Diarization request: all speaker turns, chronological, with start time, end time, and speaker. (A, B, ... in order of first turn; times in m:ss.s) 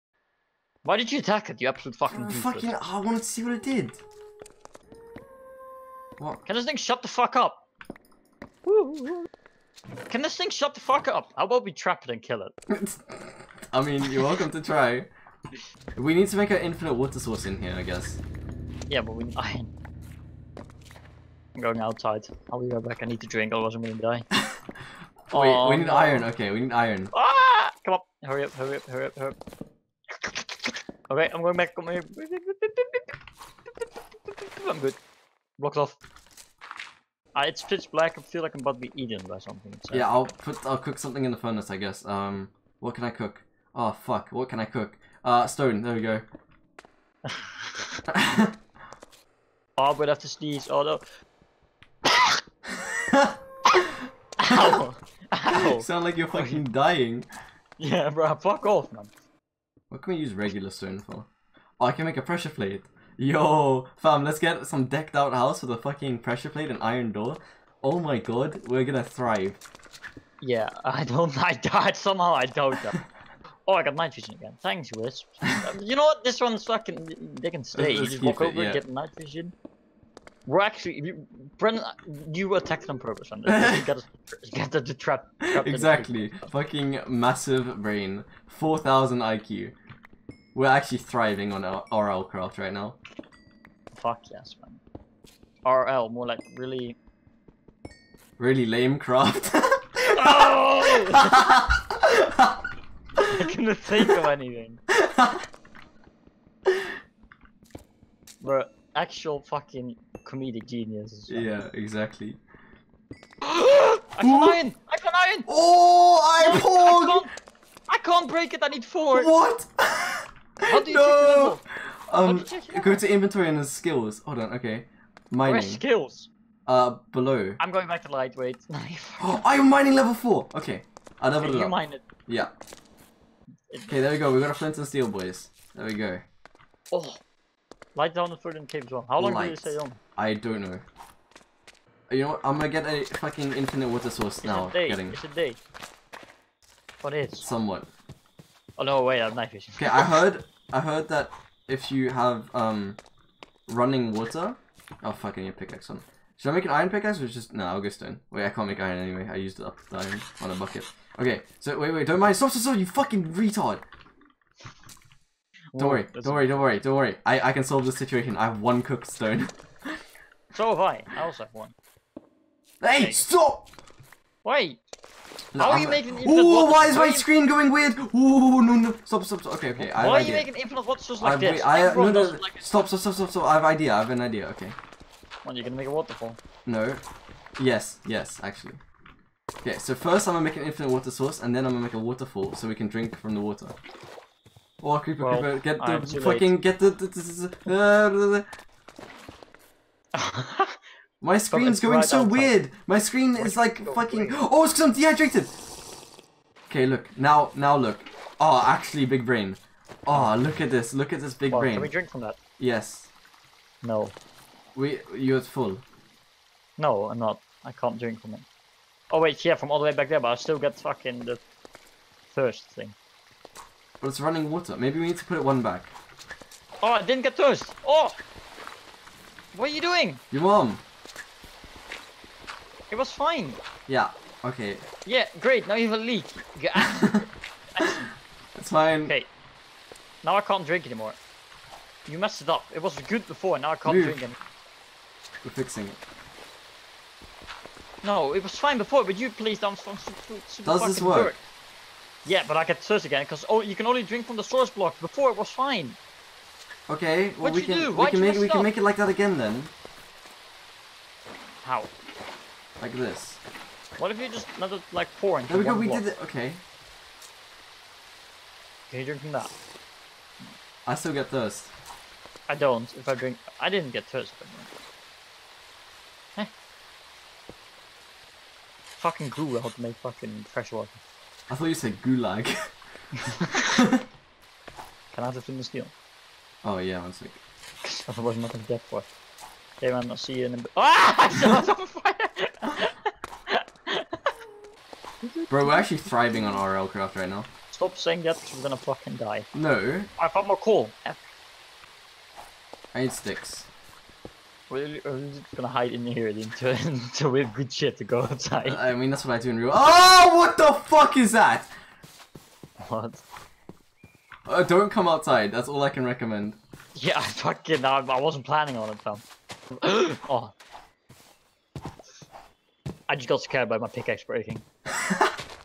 0:00.8-0:02.7 A
0:02.1-0:04.0 B
0:06.4-0:07.6 A
0:08.6-0:09.3 A
0:10.1-0:12.5 A
0:12.7-0:15.1 B
0:16.0-0:18.2 B
0:18.9-0:19.7 A
0:21.6-0:24.3 A
0:25.3-0:27.1 B
0:25.3-0:26.3 A
0:27.1-0:29.4 A
0:30.1-0:33.2 A
0:34.3-0:35.0 A
0:35.6-0:36.0 A
0:37.3-0:40.1 A
0:39.9-0:46.2 B
0:47.2-0:48.0 A
0:48.1-0:48.6 B
0:49.8-0:51.0 A
0:52.1-0:52.4 A
0:52.8-0:53.4 B
0:54.4-0:56.6 A
0:54.5-0:54.8 B
0:55.5-0:57.3 B
0:57.8-0:59.1 A
0:59.9-1:01.3 B
1:01.8-1:09.6 B
1:10.4-1:13.0 A
1:13.7-1:19.5 A
1:17.7-1:18.8 B
1:20.5-1:26.5 A
1:23.4-1:23.9 B
1:25.5-1:29.8 B
1:30.6-1:33.0 B
1:33.9-1:34.8 A
1:35.6-1:37.0 A
1:38.4-1:42.6 B
1:40.1-1:41.6 A
1:43.2-1:43.5 B
1:43.2-1:44.8 A
1:45.0-1:45.4 B
1:48.4-1:51.5 A
1:51.3-1:52.4 B
1:53.4-1:55.5 A
1:54.2-1:54.6 B
1:55.5-1:57.2 B
1:56.4-1:57.3 A
1:57.9-1:59.3 A
1:59.1-2:05.8 B
2:00.7-2:01.6 A
2:02.2-2:03.0 A
2:05.4-2:06.3 A
2:06.6-2:07.6 B
2:07.6-2:09.2 A
2:09.2-2:11.8 B
2:11.4-2:12.0 A
2:12.3-2:12.5 B
2:13.9-2:16.2 B
2:16.9-2:17.2 A
2:18.0-2:20.0 A
2:19.2-2:20.8 B
2:22.1-2:25.2 B
2:24.4-2:25.6 A
2:27.0-2:27.5 A
2:27.4-2:27.9 B
2:28.8-2:30.0 A
2:29.8-2:33.0 B
2:33.7-2:43.8 B
2:45.7-2:46.7 A
2:45.8-2:50.0 B
2:50.5-2:51.7 A
2:52.8-2:53.6 B
2:53.0-2:53.2 A
2:54.4-2:54.8 A
2:55.5-3:00.5 B
2:55.6-2:57.3 A
2:59.8-3:02.6 A
3:01.2-3:04.8 B
3:05.4-3:06.4 A
3:06.7-3:07.0 B
3:07.6-3:08.8 B
3:09.6-3:13.8 B
3:14.8-3:18.5 B
3:15.2-3:16.5 A
3:20.2-3:20.8 A
3:21.2-3:25.5 B
3:21.5-3:22.6 A
3:23.4-3:24.4 A
3:26.7-3:31.9 B
3:30.1-3:30.4 A
3:31.5-3:32.4 A
3:32.6-3:33.1 B
3:33.8-3:34.2 A
3:34.8-3:35.8 B
3:36.8-3:38.5 A
3:39.1-3:41.4 A
3:42.3-3:43.0 A
3:44.0-3:46.0 B
3:46.8-3:48.2 A
3:49.5-3:50.2 A
3:50.3-3:50.8 B
3:52.9-3:53.6 A
3:53.9-3:54.9 B
3:55.1-3:58.1 A
3:58.6-3:59.1 B
4:00.2-4:01.2 A
4:02.1-4:04.4 A
4:03.9-4:04.2 B
4:05.4-4:06.0 B
4:08.0-4:11.4 A
4:10.6-4:11.4 B
4:12.2-4:16.0 A
4:16.9-4:19.7 B
4:17.4-4:18.7 A
4:21.6-4:21.9 A
4:22.8-4:23.4 B
4:24.0-4:26.0 A
4:25.5-4:26.6 B
4:28.9-4:29.5 A
4:30.8-4:31.7 B
4:32.5-4:34.7 A
4:39.0-4:41.0 A
4:41.5-4:42.6 B
4:43.2-4:43.8 A
4:45.1-4:45.9 A
4:46.6-4:47.4 B
4:47.8-4:49.1 A
4:49.8-4:54.3 A
4:55.2-4:56.6 A
4:55.5-4:57.5 B
4:57.7-4:59.5 A
4:59.5-5:00.1 B
5:00.2-5:01.2 A
5:02.9-5:03.7 B
5:04.7-5:08.8 A
5:08.6-5:11.7 B
5:12.8-5:13.2 A
5:14.5-5:16.6 B
5:16.9-5:19.2 A
5:19.8-5:20.5 A
5:23.1-5:24.6 A